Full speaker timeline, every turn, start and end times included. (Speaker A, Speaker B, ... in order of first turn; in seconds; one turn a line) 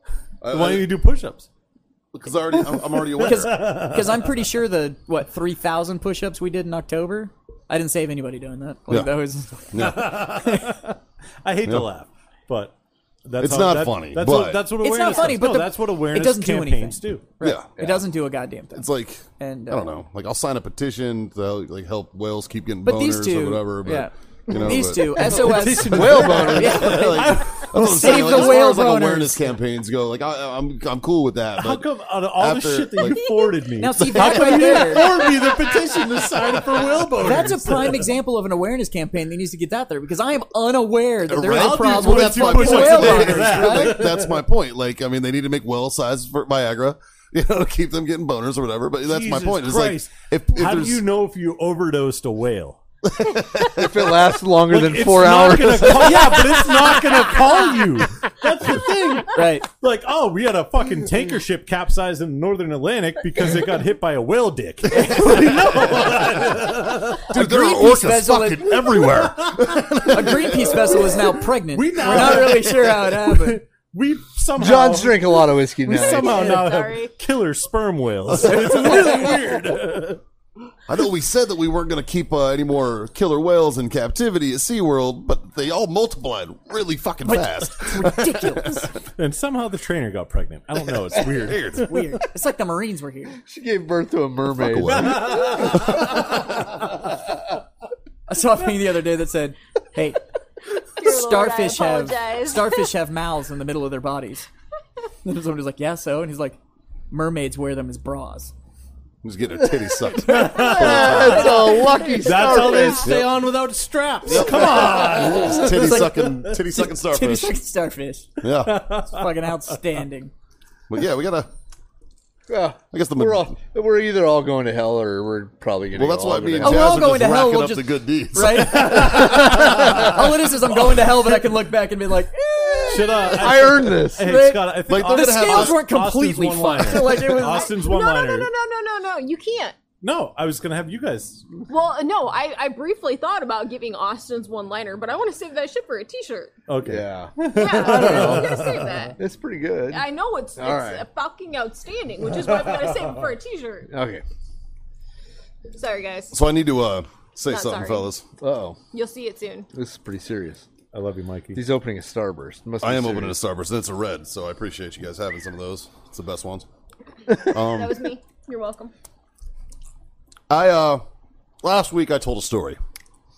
Speaker A: 0.4-0.9
Speaker B: 0.4-1.5
Speaker A: 2.1-3.5
Speaker B: 2.8-4.5
Speaker C: 3.2-10.7
Speaker A: 9.7-10.3
Speaker B: 9.8-12.7
Speaker B: 13.2-17.3
Speaker A: 13.4-14.7
Speaker C: 14.8-18.9
Speaker A: 17.4-17.7
Speaker A: 18.7-33.2
Speaker C: 19.4-19.9
Speaker C: 22.8-29.4
Speaker B: 25.2-28.6
Speaker D: 25.3-27.0
Speaker B: 31.6-38.1
Speaker E: 33.1-33.5
Speaker C: 33.8-35.1
Speaker A: 34.1-34.8
Speaker E: 35.2-35.7
Speaker C: 37.2-44.0
Speaker A: 41.3-51.1
Speaker B: 41.5-44.4
Speaker B: 49.0-52.8
Speaker A: 53.2-54.0
Speaker D: 53.6-56.3
Speaker B: 54.7-67.3
Speaker C: 59.3-59.7
Speaker A: 64.9-71.3
Speaker C: 67.3-69.0
Speaker B: 68.9-70.1
Speaker C: 70.1-73.6
Speaker B: 71.7-80.2
Speaker D: 74.6-76.6
Speaker E: 76.0-77.1
Speaker C: 76.3-76.7
Speaker C: 78.4-79.4
Speaker A: 80.9-88.9
Speaker C: 87.2-89.0
Speaker B: 89.2-92.2
Speaker A: 91.1-91.9
Speaker C: 91.8-93.4
Speaker D: 93.4-96.1
Speaker A: 94.6-96.8
Speaker B: 94.9-96.1
Speaker C: 98.3-100.2
Speaker E: 101.0-102.9
Speaker C: 101.0-104.5
Speaker C: 105.2-106.6
Speaker C: 107.1-108.5
Speaker A: 109.2-111.8
Speaker D: 110.2-113.3
Speaker B: 110.2-116.6
Speaker E: 111.9-113.0
Speaker A: 114.2-117.6
Speaker C: 114.8-118.4
Speaker A: 118.4-118.9
Speaker B: 118.6-119.5
Speaker C: 119.0-120.3
Speaker A: 120.9-121.5
Speaker D: 122.5-127.0
Speaker A: 122.9-123.5
Speaker A: 125.9-130.1
Speaker C: 126.6-133.4
Speaker B: 128.5-130.0
Speaker B: 132.8-138.5
Speaker D: 133.3-134.3
Speaker C: 134.1-137.7
Speaker A: 134.9-135.8
Speaker E: 137.2-139.8
Speaker B: 140.0-141.5
Speaker E: 141.7-146.5
Speaker B: 146.7-149.1
Speaker D: 146.8-148.5
Speaker E: 147.5-149.2
Speaker D: 149.2-151.1
Speaker E: 149.9-153.9
Speaker B: 152.6-153.0
Speaker D: 153.9-154.2
Speaker E: 155.7-156.4
Speaker A: 156.3-158.2
Speaker E: 157.5-158.1
Speaker D: 158.4-158.8
Speaker E: 158.9-159.7
Speaker D: 159.7-160.7
Speaker B: 160.9-161.7
Speaker D: 161.6-163.3
Speaker A: 162.8-166.7
Speaker E: 167.4-168.9
Speaker A: 167.5-168.0
Speaker A: 170.5-171.0
Speaker A: 171.6-172.8